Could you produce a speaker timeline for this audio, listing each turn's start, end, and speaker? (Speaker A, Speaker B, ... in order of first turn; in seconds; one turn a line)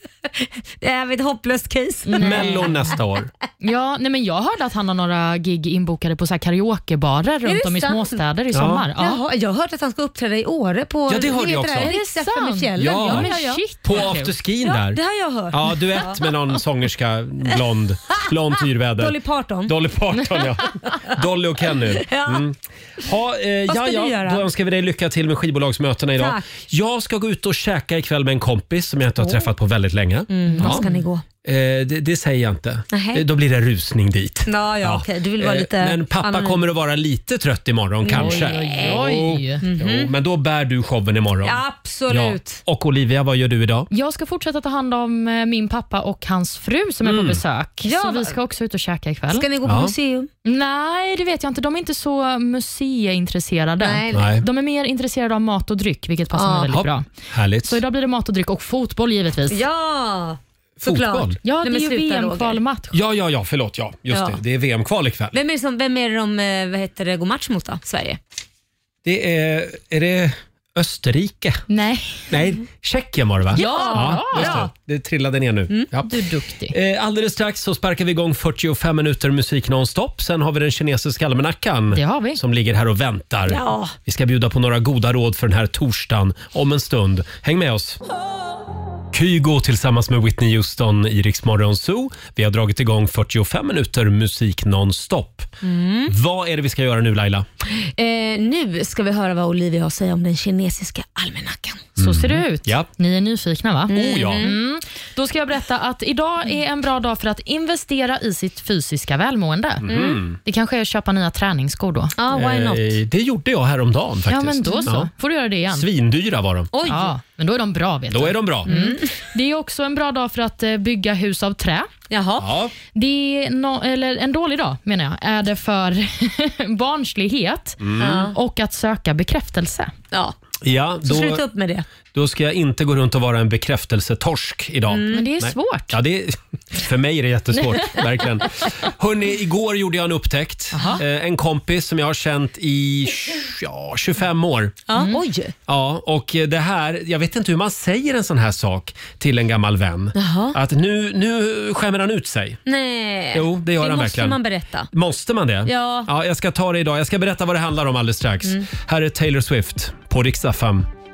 Speaker A: 0.3-3.0
Speaker B: 2.0-2.9
Speaker C: 2.2-3.3
Speaker B: 3.6-9.2
Speaker A: 7.4-8.2
Speaker C: 8.5-8.9
Speaker A: 9.0-14.1
Speaker C: 11.1-11.9
Speaker B: 11.8-14.3
Speaker C: 12.8-30.8
Speaker A: 14.6-16.2
Speaker A: 19.0-19.7
Speaker A: 20.6-21.0
Speaker A: 22.0-22.4
Speaker A: 23.7-24.4
Speaker A: 26.2-26.4
Speaker A: 29.2-29.4
Speaker A: 30.3-31.2
Speaker B: 30.6-31.0
Speaker C: 31.4-43.9
Speaker A: 32.9-33.2
Speaker A: 34.5-36.6
Speaker A: 38.0-39.0
Speaker B: 38.1-39.6
Speaker A: 39.6-40.1
Speaker A: 41.4-42.6
Speaker B: 43.9-49.5
Speaker C: 47.0-47.4
Speaker A: 47.8-48.3
Speaker A: 49.3-50.3
Speaker C: 49.6-49.9
Speaker B: 50.4-57.1
Speaker A: 53.8-54.3
Speaker C: 54.1-54.4
Speaker A: 56.3-56.7
Speaker C: 56.7-57.8
Speaker B: 57.6-59.6
Speaker A: 59.5-62.6
Speaker C: 60.8-61.4
Speaker B: 61.4-63.0
Speaker C: 62.9-65.4
Speaker A: 64.1-64.4
Speaker A: 65.3-68.2
Speaker C: 69.0-71.6
Speaker B: 71.7-72.3
Speaker C: 72.3-76.1
Speaker B: 73.5-74.6
Speaker A: 73.5-74.7
Speaker B: 76.0-76.7
Speaker C: 76.7-88.0
Speaker B: 81.9-82.4
Speaker A: 83.5-83.9
Speaker C: 89.1-95.5
Speaker A: 95.6-96.1
Speaker C: 96.1-97.5
Speaker A: 98.0-101.9
Speaker C: 102.0-102.9
Speaker B: 102.0-109.9
Speaker A: 103.9-104.5
Speaker C: 103.9-104.5
Speaker C: 109.8-110.4
Speaker A: 109.9-110.2
Speaker B: 110.4-112.1
Speaker A: 112.2-112.9
Speaker C: 112.3-115.1
Speaker B: 114.3-115.9
Speaker C: 115.7-116.7
Speaker A: 116.7-117.1
Speaker B: 116.9-121.9
Speaker C: 118.1-118.7
Speaker A: 118.7-119.2
Speaker A: 122.1-122.5
Speaker C: 122.4-122.7
Speaker B: 122.9-129.9
Speaker C: 127.8-128.3
Speaker A: 128.0-128.4
Speaker C: 130.6-131.4
Speaker A: 131.0-131.9
Speaker C: 132.1-144.8
Speaker A: 134.9-135.2
Speaker B: 135.1-136.0
Speaker B: 140.7-141.0
Speaker A: 144.9-145.5
Speaker C: 145.7-152.6
Speaker A: 150.2-150.6
Speaker A: 152.7-154.9
Speaker C: 153.3-154.4
Speaker C: 154.9-160.9
Speaker A: 155.7-156.1